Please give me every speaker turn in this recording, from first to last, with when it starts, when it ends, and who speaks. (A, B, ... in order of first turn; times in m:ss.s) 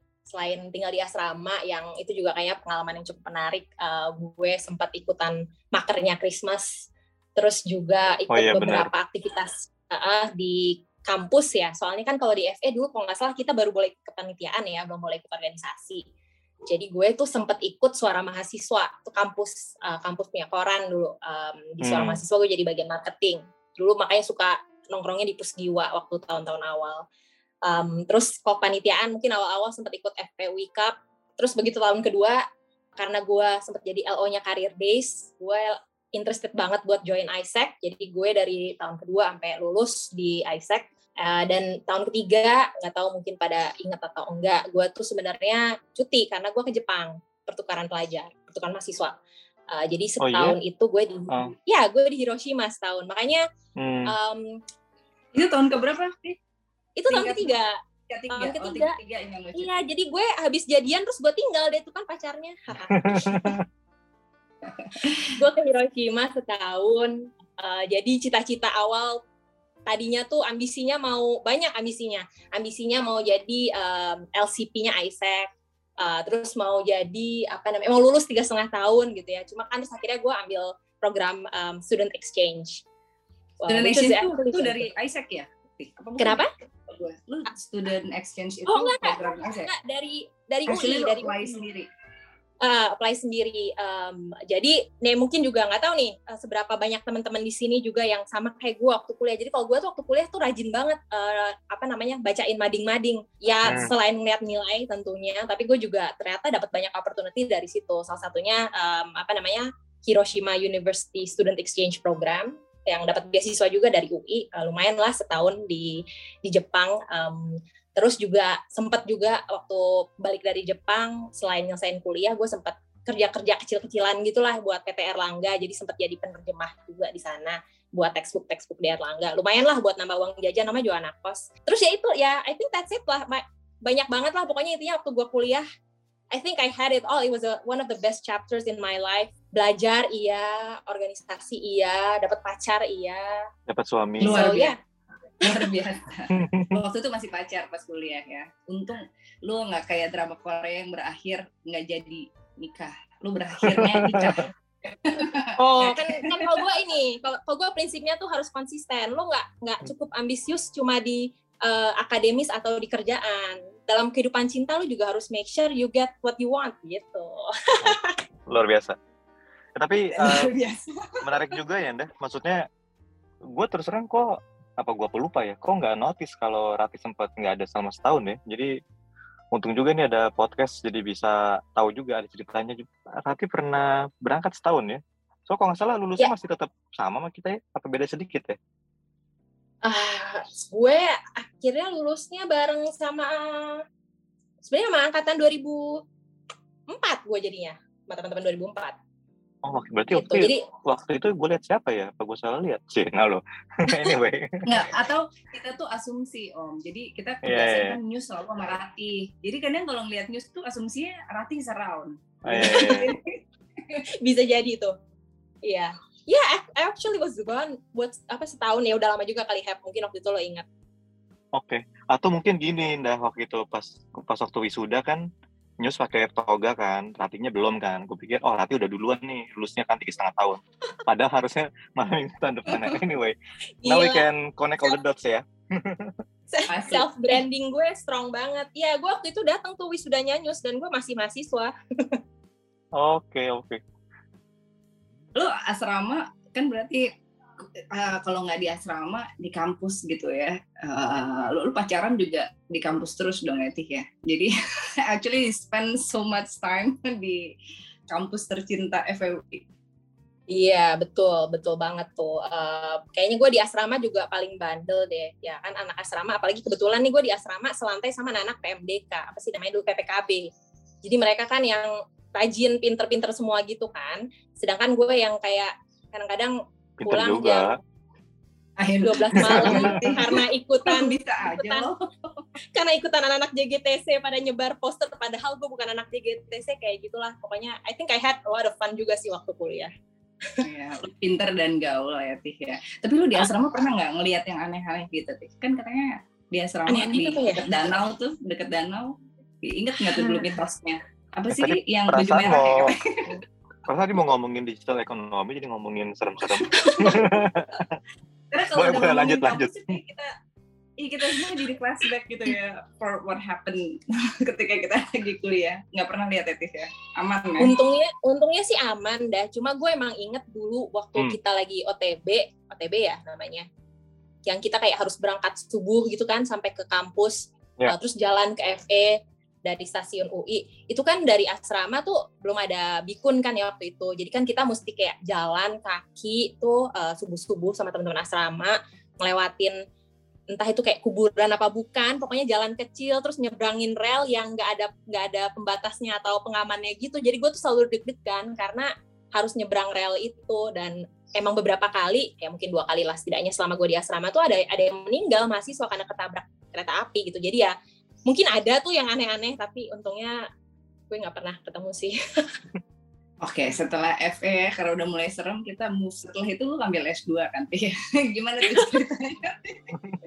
0:00.2-0:16.0 A
0:08.3-0:08.9 B
0:16.7-0:27.0 A
0:21.8-0:22.2 B
0:27.7-0:32.4 A
0:33.0-0:49.2 A
0:49.7-0:53.5 A
0:50.2-0:50.6 B
0:53.8-0:54.1 B
0:54.1-0:54.6 A
0:55.3-0:56.4 C
0:57.0-0:57.8 A
0:57.1-0:57.6 C
0:58.1-0:59.8 C
0:58.3-0:59.0 A
0:59.6-1:03.6 A
1:03.0-1:03.6 B
1:04.6-1:05.3 C
1:05.0-1:09.2 A
1:09.9-1:15.5 A
1:16.0-1:22.8 A
1:23.6-1:24.9 A
1:23.7-1:29.7 C
1:26.2-1:26.5 A
1:28.7-1:31.4 A
1:30.7-1:31.9 C
1:32.6-2:15.6 A
1:43.6-1:43.9 B
2:16.3-2:23.5 A
2:23.7-2:24.5 B
2:24.2-2:24.8 C
2:24.2-2:24.8 A
2:25.4-2:36.6 C
2:33.7-2:34.5 B
2:35.6-2:48.2 A
2:47.8-2:49.0 B
2:49.8-2:50.5 B
2:50.1-2:51.2 C
2:51.2-2:52.7 B
2:53.5-2:58.7 B
2:59.5-3:08.6 B
3:09.8-3:13.8 A
3:14.6-3:16.0 A
3:16.9-3:19.0 A
3:19.6-3:24.7 B
3:20.1-3:20.6 A
3:24.7-3:33.4 C
3:27.4-3:28.0 B
3:32.4-3:33.2 B
3:32.7-3:33.0 A
3:34.2-3:35.0 A
3:35.6-3:40.6 A
3:41.6-3:45.3 B
3:45.8-3:56.1 B
3:52.7-3:53.0 C
3:53.8-3:54.2 A
3:56.5-4:02.2 A
3:56.7-3:57.1 C
4:02.9-4:03.8 B
4:05.4-4:07.2 C
4:07.8-4:17.5 C
4:18.1-4:19.6 C
4:20.5-4:30.5 A
4:31.0-4:37.8 A
4:37.0-4:37.7 B
4:38.8-4:42.5 C
4:39.0-4:41.9 A
4:39.6-4:40.0 B
4:42.7-4:49.9 A
4:50.6-5:03.4 C
4:56.9-4:57.6 A
5:00.2-5:00.5 A
5:01.5-5:02.9 B
5:03.9-5:08.0 B
5:06.7-5:07.2 A
5:06.8-5:07.4 C
5:08.5-5:10.3 C
5:08.7-5:09.7 B
5:11.0-5:17.8 C
5:17.6-5:23.7 A
5:24.5-5:39.8 A
5:40.5-5:57.7 A
5:58.3-6:00.4 A
6:01.1-6:02.6 A
6:03.4-6:10.0 C